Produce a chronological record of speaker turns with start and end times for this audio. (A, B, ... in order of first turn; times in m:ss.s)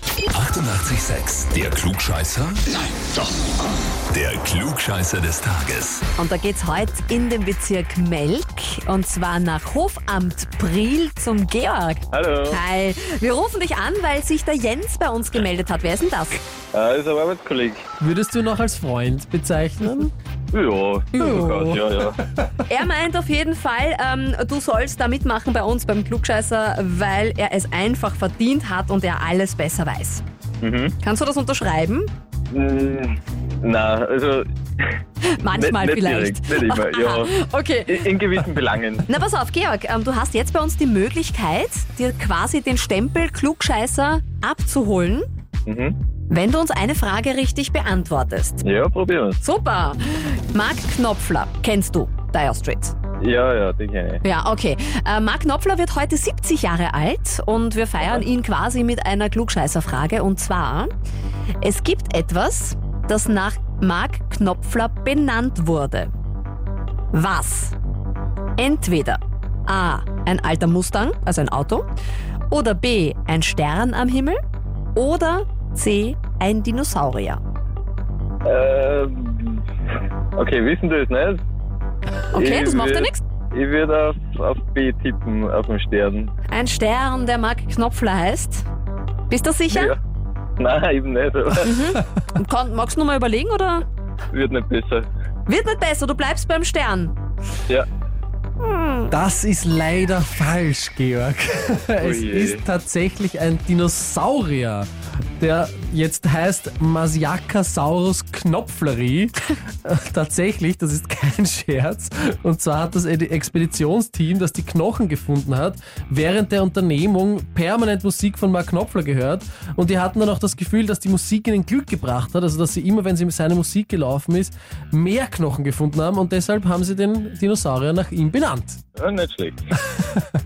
0:00.3-0:02.7 A
0:04.1-0:06.0 A
0:06.2-0:16.4 B
0:12.1-0:12.6 C
0:16.7-0:17.8 C
0:18.0-0:20.1 D
0:20.5-0:22.2 C
0:21.2-0:22.1 D
0:22.7-0:30.2 B
0:30.6-0:31.0 C
0:31.0-0:32.1 B
0:32.5-0:34.9 C
0:35.2-0:38.1 B
0:35.5-0:39.1 C
0:39.1-0:45.3 B
0:45.7-0:46.0 C
0:46.3-0:48.6 B
0:48.6-0:49.4 C
0:49.4-0:53.0 B
0:53.2-0:54.2 C
0:54.2-1:00.9 B
1:01.6-1:06.1 B
1:07.1-1:07.8 B
1:08.6-1:11.9 B
1:12.5-1:14.4 B
1:15.0-1:17.4 B
1:18.4-1:19.6 C
1:20.4-1:21.4 C
1:22.3-1:23.2 B
1:22.3-1:26.3 C
1:26.5-1:28.6 B
1:29.3-1:30.0 B
1:29.7-1:30.0 C
1:30.6-1:31.9 C
1:31.6-1:33.9 B
1:34.3-1:35.1 C
1:35.5-1:37.1 B
1:38.6-1:39.1 B
1:39.1-2:08.8 D
1:42.0-1:42.6 C
2:09.0-2:09.7 C
2:10.0-2:10.2 D